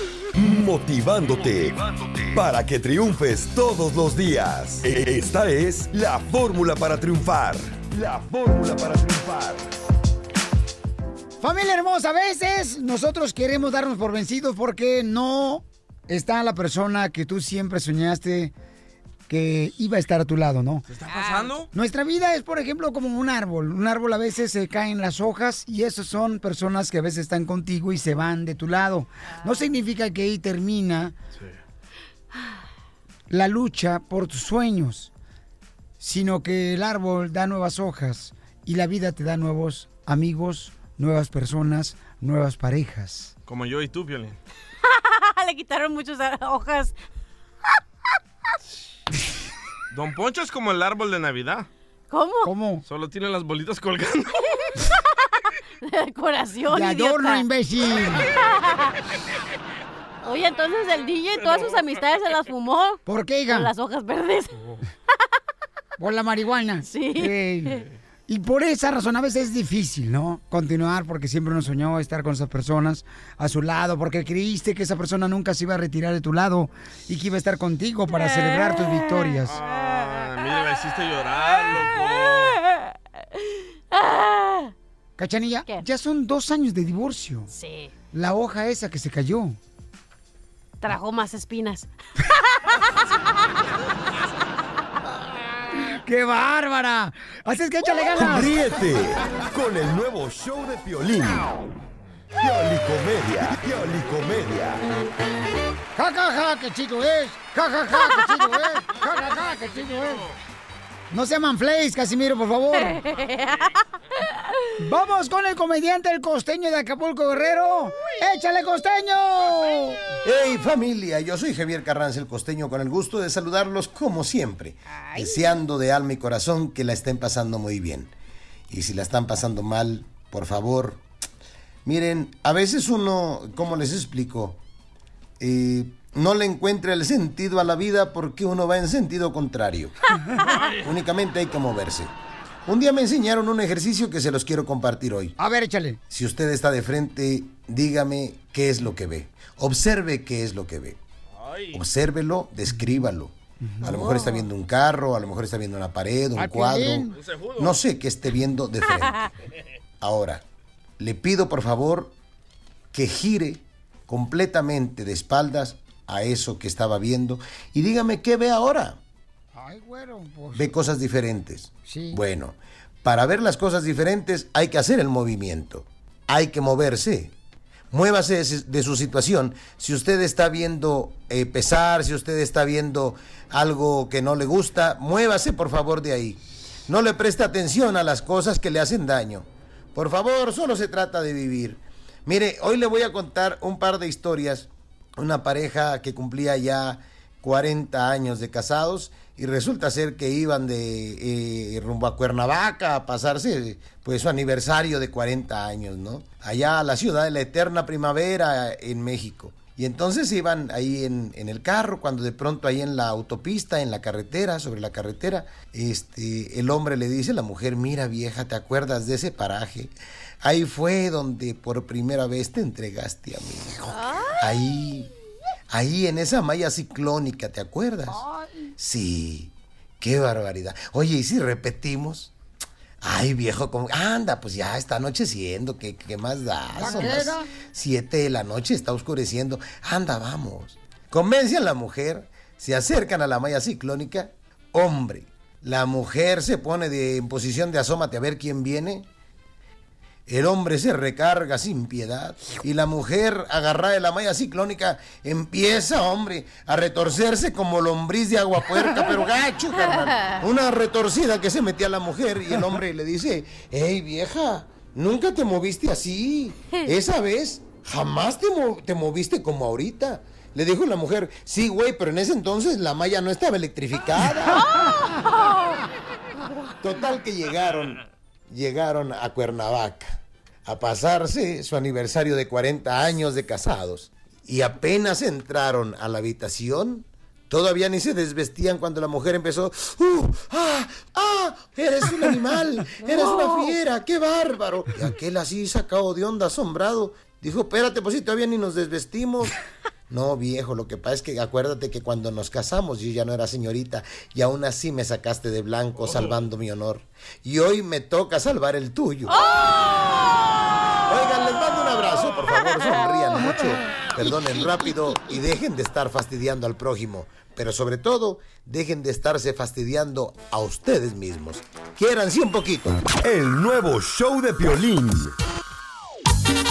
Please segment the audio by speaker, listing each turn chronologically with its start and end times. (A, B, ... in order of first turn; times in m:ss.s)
0:00.4-0:09.8 A
0:11.4-0:18.5 B
0:19.3-0:20.9 B
0:20.9-0:21.7 C
0:21.1-0:21.5 D
0:21.7-0:31.1 B
0:29.3-0:29.7 D
0:33.3-0:35.1 B
0:36.0-0:43.3 B
0:43.5-0:44.4 C
0:44.9-0:47.0 D
0:49.9-0:51.7 C
0:52.1-0:52.5 D
0:52.4-0:52.8 B
0:52.9-0:54.5 C
0:55.8-0:57.5 D
0:56.7-0:58.3 B
0:58.6-0:58.9 D
1:00.2-1:04.6 D
1:01.4-1:01.8 C
1:03.1-1:03.7 B
1:06.0-1:19.6 B
1:06.8-1:07.8 D
1:18.1-1:19.4 D
1:19.5-1:22.6 C
1:21.6-1:22.6 D
1:23.9-1:24.7 D
1:25.2-1:27.5 B
1:27.5-1:27.9 D
1:28.1-1:29.6 B
1:30.8-1:31.9 D
1:32.6-1:32.9 D
1:35.8-1:38.5 B
1:38.2-1:41.6 A
1:42.4-1:44.9 A
1:46.0-1:50.3 B
1:49.2-1:50.3 C
1:51.1-1:53.0 B
1:52.8-1:53.7 D
1:54.8-2:00.0 B
2:00.2-2:08.1 E
2:04.9-2:05.6 D
2:08.7-2:11.0 E
2:11.8-2:14.6 E
2:15.4-2:19.9 E
2:20.4-2:20.9 C
2:20.8-2:22.1 E
2:22.7-2:25.4 E
2:25.4-2:26.0 B
2:26.1-2:31.0 E
2:31.4-2:31.8 C
2:31.7-2:39.3 E
2:32.7-2:33.1 B
2:33.6-2:34.0 B
2:33.9-2:34.4 D
2:36.4-2:37.1 B
2:37.2-2:37.8 C
2:38.9-2:39.3 D
2:40.0-2:40.4 E
2:41.0-2:42.1 E
2:42.9-2:49.0 E
2:49.6-2:50.8 B
2:50.6-2:57.3 E
2:51.9-2:52.2 B
2:57.9-3:45.1 E
3:43.9-3:44.5 D
3:45.7-3:48.2 E
3:48.1-3:48.7 B
3:48.8-3:52.3 E
3:53.0-4:09.1 E
3:56.8-3:57.5 B
4:10.3-4:34.6 E
4:19.8-4:20.5 D
4:34.5-4:35.8 D
4:36.8-4:40.2 E
4:40.7-4:59.6 E
4:53.2-4:53.7 D
5:00.1-5:09.4 E
5:06.0-5:06.4 C
5:09.3-5:10.3 D
5:11.1-5:23.0 E
5:12.5-5:13.1 D
5:13.1-5:14.3 B
5:14.9-5:15.1 B
5:23.2-5:25.3 A